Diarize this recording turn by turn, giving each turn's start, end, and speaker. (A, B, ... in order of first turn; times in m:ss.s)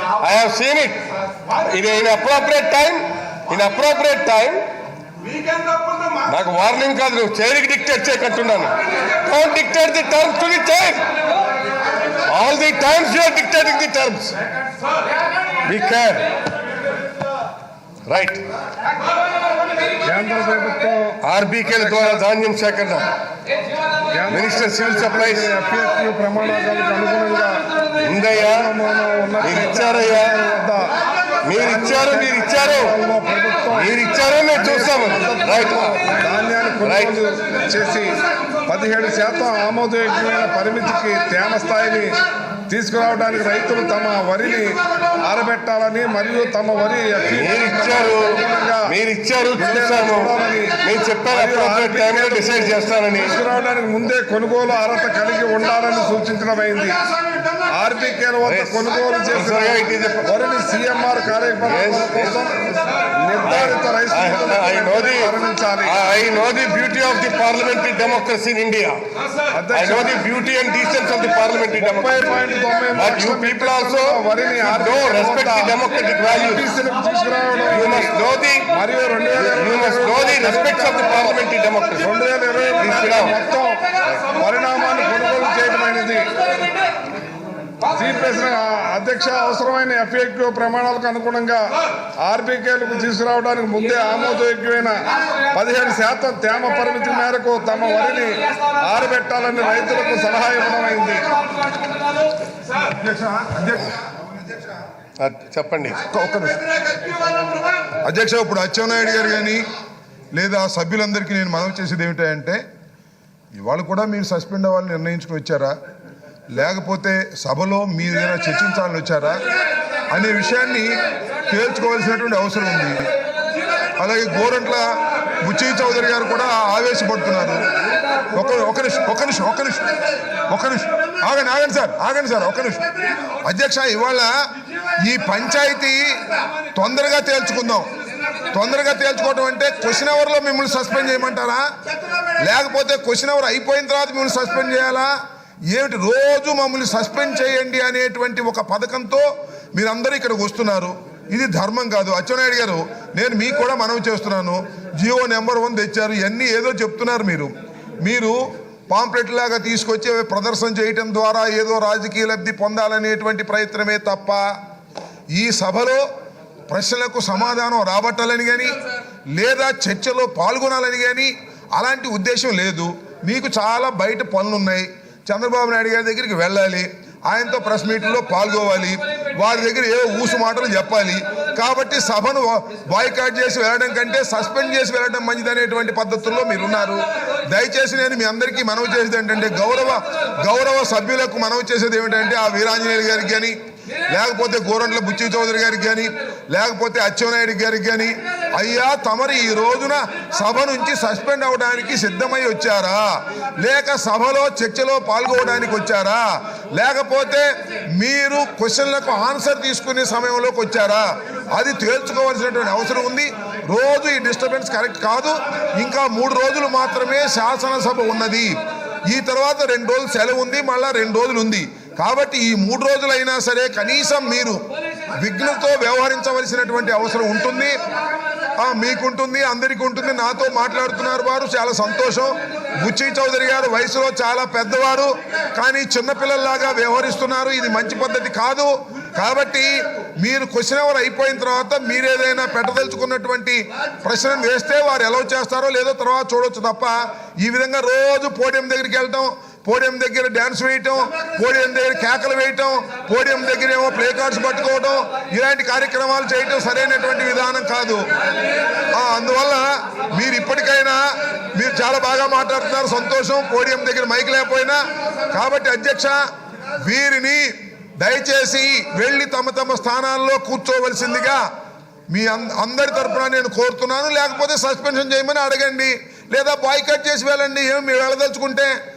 0:00.2-0:01.0 A
0:01.5-0:04.6 A
0:06.1-0:11.1 A
0:12.2-0:14.4 A
0:15.6-0:16.3 A
0:18.1-0:18.4 A
0:20.0-0:22.2 B
0:21.2-0:23.1 A
0:24.1-0:31.0 B
0:24.3-0:25.5 A
0:28.0-0:28.7 A
0:29.4-0:30.4 A
0:31.4-0:33.0 A
0:31.5-0:33.9 B
0:33.7-0:36.0 A
0:34.5-0:49.0 B
0:36.8-0:37.3 A
0:47.3-0:53.4 A
0:49.6-0:57.0 B
0:57.5-1:06.0 B
0:58.4-1:00.3 A
1:01.6-1:02.4 A
1:03.4-1:09.0 A
1:09.5-1:10.2 B
1:09.7-1:16.7 A
1:11.7-1:21.4 B
1:17.7-1:18.8 A
1:19.4-1:22.1 A
1:22.0-1:26.7 B
1:22.8-1:23.3 A
1:27.9-1:31.6 B
1:32.2-1:41.3 B
1:42.9-1:44.0 C
1:45.2-1:46.0 A
1:46.1-1:46.7 C
1:48.0-1:49.6 C
1:50.4-1:52.6 C
1:53.6-1:55.7 C
1:56.5-1:59.4 C
2:00.1-2:00.9 C
2:01.5-2:03.1 C
2:04.0-2:04.9 C
2:05.4-2:07.7 C
2:08.3-2:10.0 C
2:10.5-2:12.9 C
2:13.4-2:14.3 C
2:15.0-2:16.0 C
2:16.8-2:17.9 C
2:18.5-2:21.6 C
2:22.4-2:25.1 C
2:25.7-2:37.5 C
2:38.0-2:38.4 C
2:38.9-2:44.4 C
2:45.4-2:46.0 C
2:46.7-2:48.8 C
2:49.4-3:13.6 C
3:14.1-3:23.0 C
3:23.6-3:38.5 C
3:39.1-3:44.6 C
3:45.2-3:47.8 C
3:48.6-4:18.1 C
4:18.9-4:21.0 C
4:21.5-4:24.8 C
4:25.3-4:26.2 C
4:26.8-4:27.5 C
4:28.0-4:31.4 C
4:32.1-4:38.8 C